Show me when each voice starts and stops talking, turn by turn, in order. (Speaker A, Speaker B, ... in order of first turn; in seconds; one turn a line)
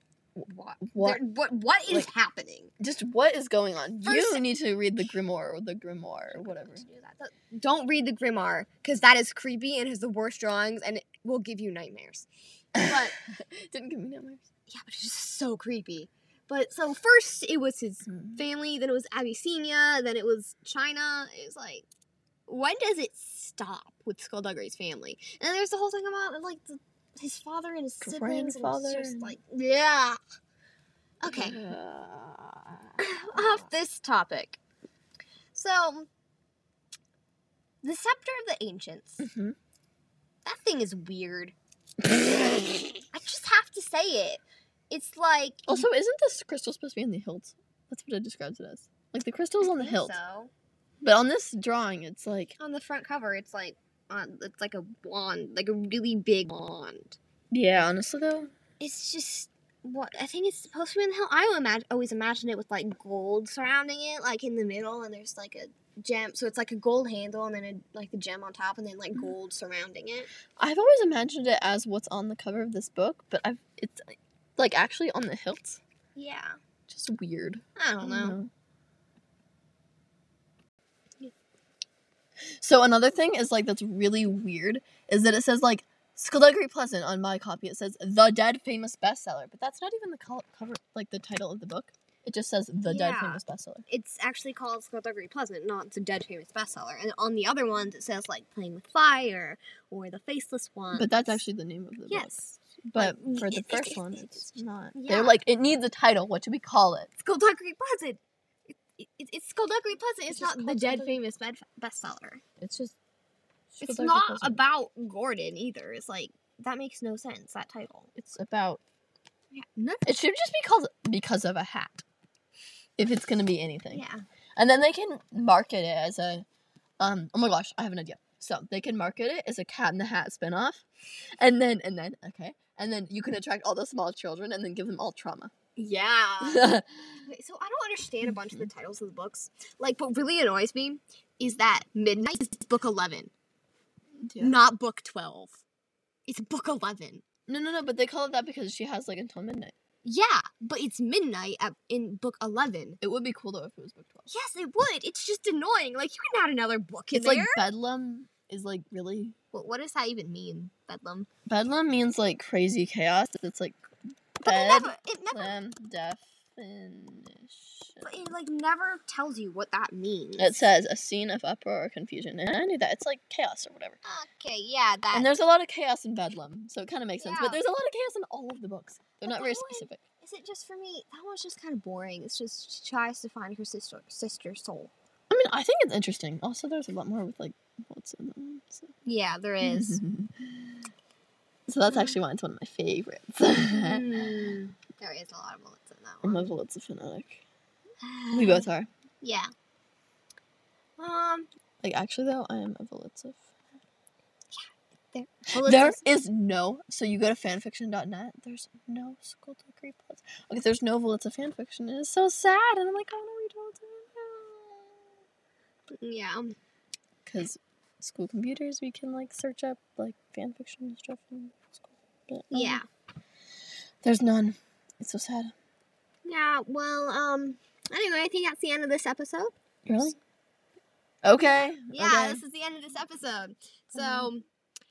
Speaker A: 0.4-1.2
Speaker B: 0.5-2.7
Speaker A: 2.8-6.8
Speaker B: 4.0-4.4
Speaker B: 6.3-13.2
Speaker A: 12.8-14.5
Speaker B: 14.7-21.9
Speaker A: 18.1-18.4
Speaker B: 22.5-30.2
Speaker A: 28.0-29.3
Speaker B: 31.2-31.6
Speaker A: 31.3-33.7
Speaker B: 33.0-34.6
Speaker B: 35.5-36.1
Speaker B: 37.8-39.3
Speaker A: 39.2-39.6
Speaker B: 40.5-41.5
Speaker A: 42.0-42.8
Speaker B: 43.1-45.9
Speaker A: 45.7-50.2
Speaker B: 49.6-50.5
Speaker A: 51.0-52.5
Speaker B: 52.6-57.2
Speaker A: 57.5-58.5
Speaker B: 58.8-70.3
Speaker A: 70.6-75.8
Speaker B: 76.2-76.6
Speaker A: 76.9-78.5
Speaker B: 77.8-78.4
Speaker A: 82.6-93.8
Speaker B: 92.8-101.4
Speaker A: 100.9-102.3
Speaker B: 102.1-105.4
Speaker A: 102.9-107.1
Speaker B: 107.2-112.4
Speaker A: 110.3-111.2
Speaker A: 112.6-113.0
Speaker A: 113.7-114.6
Speaker B: 113.8-118.1
Speaker A: 118.2-118.8
Speaker B: 119.5-120.2
Speaker A: 120.1-122.0
Speaker A: 123.0-124.0
Speaker B: 123.9-124.2
Speaker A: 124.6-126.5
Speaker A: 127.0-130.8
Speaker A: 131.4-135.5
Speaker B: 135.8-136.7
Speaker A: 136.4-137.1
Speaker B: 137.3-143.3
Speaker A: 138.2-138.7
Speaker A: 144.2-144.6
Speaker B: 144.4-145.6
Speaker B: 146.3-147.2
Speaker A: 147.5-149.7
Speaker B: 150.0-153.0
Speaker A: 153.0-154.3
Speaker B: 154.3-157.6
Speaker A: 157.1-159.3
Speaker B: 159.5-161.3
Speaker A: 161.5-163.8
Speaker A: 164.4-168.3
Speaker B: 164.4-165.6
Speaker B: 168.0-170.7
Speaker A: 170.4-174.0
Speaker B: 174.0-175.4
Speaker A: 175.1-180.0
Speaker B: 177.2-177.6
Speaker B: 179.2-184.9
Speaker A: 185.3-188.9
Speaker B: 189.1-190.0
Speaker A: 189.6-190.6
Speaker A: 191.7-194.6
Speaker B: 191.9-192.2
Speaker B: 193.6-196.5
Speaker A: 196.2-197.4
Speaker B: 198.0-198.7
Speaker A: 198.3-198.9
Speaker B: 199.2-199.5
Speaker B: 201.0-201.5
Speaker A: 201.8-203.4
Speaker B: 204.5-206.0
Speaker A: 205.6-214.9
Speaker B: 215.9-216.6
Speaker A: 217.2-222.8
Speaker B: 222.5-222.8
Speaker A: 224.0-225.5
Speaker B: 226.2-229.5
Speaker A: 229.9-230.2
Speaker A: 231.2-232.4
Speaker B: 231.9-234.4
Speaker A: 233.9-234.3